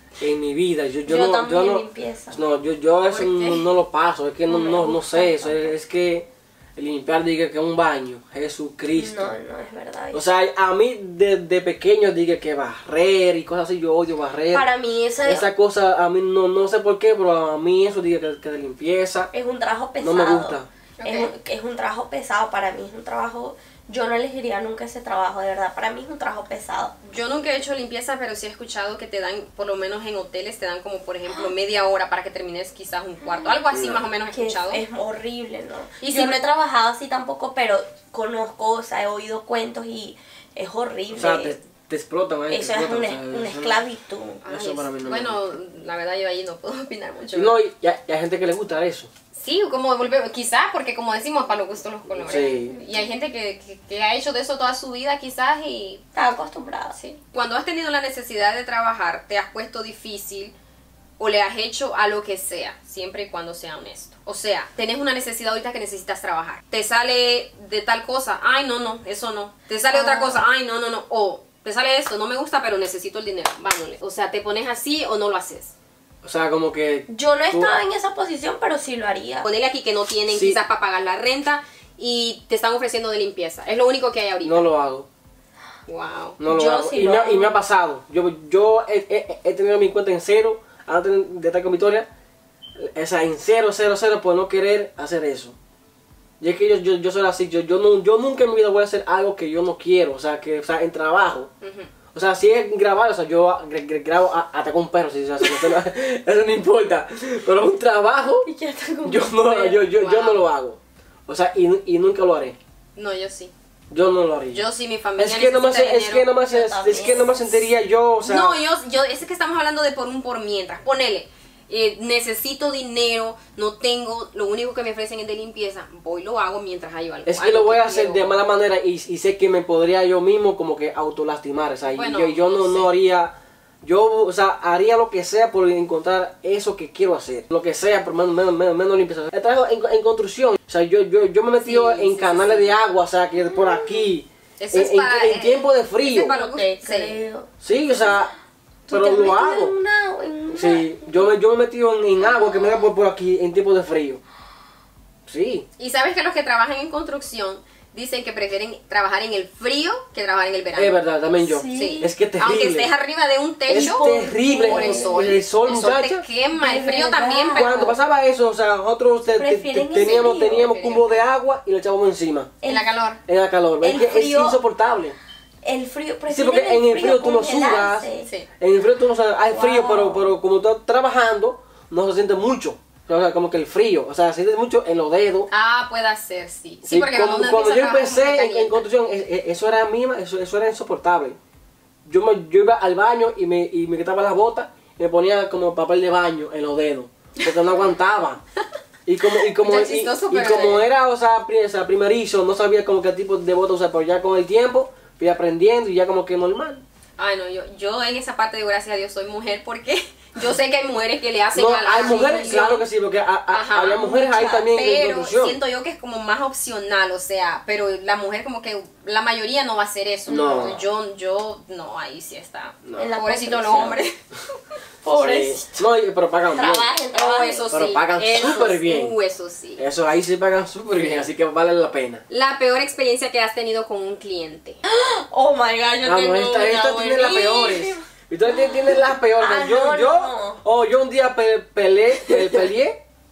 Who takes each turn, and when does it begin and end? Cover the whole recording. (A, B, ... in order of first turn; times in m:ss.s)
0:00.2-0:09.3 A
0:01.1-0:02.4 B
0:03.1-0:03.7 C
0:04.5-0:05.8 B
0:09.0-0:10.3 B
0:10.1-0:14.7 A
0:14.5-0:15.5 B
0:15.2-0:19.3 A
0:19.3-0:27.0 B
0:20.0-0:20.7 A
0:21.0-0:21.3 C
0:27.0-0:34.8 C
0:33.7-0:34.0 A
0:34.3-0:41.6 B
0:36.0-0:36.4 C
0:41.1-0:43.8 A
0:42.5-0:44.4 B
0:44.4-0:47.6 C
0:44.5-0:45.4 A
0:47.4-0:49.1 A
0:49.4-0:56.0 C
0:52.2-0:52.8 A
0:56.1-0:57.0 B
0:57.0-1:00.6 C
1:01.2-1:15.7 C
1:09.9-1:10.4 B
1:16.2-1:17.8 A
1:17.1-1:19.5 B
1:19.4-1:24.7 C
1:20.3-1:20.6 A
1:24.4-1:25.1 A
1:25.9-1:26.4 C
1:26.4-1:32.1 A
1:26.5-1:27.6 B
1:32.8-1:35.6 A
1:36.4-1:41.5 A
1:41.6-1:41.9 C
1:42.1-1:48.5 A
1:48.4-1:49.6 B
1:49.0-1:52.6 A
1:49.5-1:50.4 C
1:53.0-1:53.5 C
1:53.9-1:54.6 A
1:54.5-1:56.3 C
1:55.2-1:58.6 A
1:56.5-1:57.7 B
1:58.2-2:08.3 C
2:07.3-2:26.4 A
2:11.9-2:12.9 C
2:21.6-2:22.7 C
2:23.5-2:24.1 B
2:24.6-2:27.2 C
2:26.3-2:27.5 B
2:27.6-2:28.3 A
2:28.9-2:31.2 B
2:28.9-2:29.8 A
2:30.5-2:34.2 A
2:35.3-2:35.6 A
2:35.8-2:41.0 C
2:40.8-2:42.9 A
2:41.4-2:42.1 B
2:41.7-2:44.1 C
2:43.7-2:45.9 B
2:43.7-2:46.2 A
2:44.6-2:47.9 C
2:46.5-2:48.0 B
2:47.5-2:52.6 A
2:49.3-2:50.7 B
2:50.0-2:51.2 C
2:52.7-2:53.2 C
2:53.3-2:55.2 A
2:53.8-2:54.6 B
2:55.6-2:58.3 B
2:56.3-2:58.1 A
2:58.6-3:05.5 A
2:59.5-3:00.3 B
3:05.5-3:08.8 C
3:06.8-3:11.4 A
3:12.0-3:18.4 A
3:19.1-3:26.8 A
3:19.6-3:20.8 C
3:27.2-3:32.8 C
3:31.5-3:35.6 A
3:33.5-3:44.2 C
3:34.0-3:34.6 B
3:40.3-3:40.8 B
3:40.3-3:40.9 A
3:42.8-3:43.1 A
3:43.0-3:44.0 B
3:45.0-3:45.8 B
3:45.1-3:46.9 A
3:46.5-3:47.7 B
3:47.1-3:49.8 C
3:47.7-3:49.1 A
3:49.8-3:52.2 A
3:52.3-3:54.8 C
3:54.8-3:58.0 B
3:56.0-4:03.0 A
3:58.5-4:00.6 B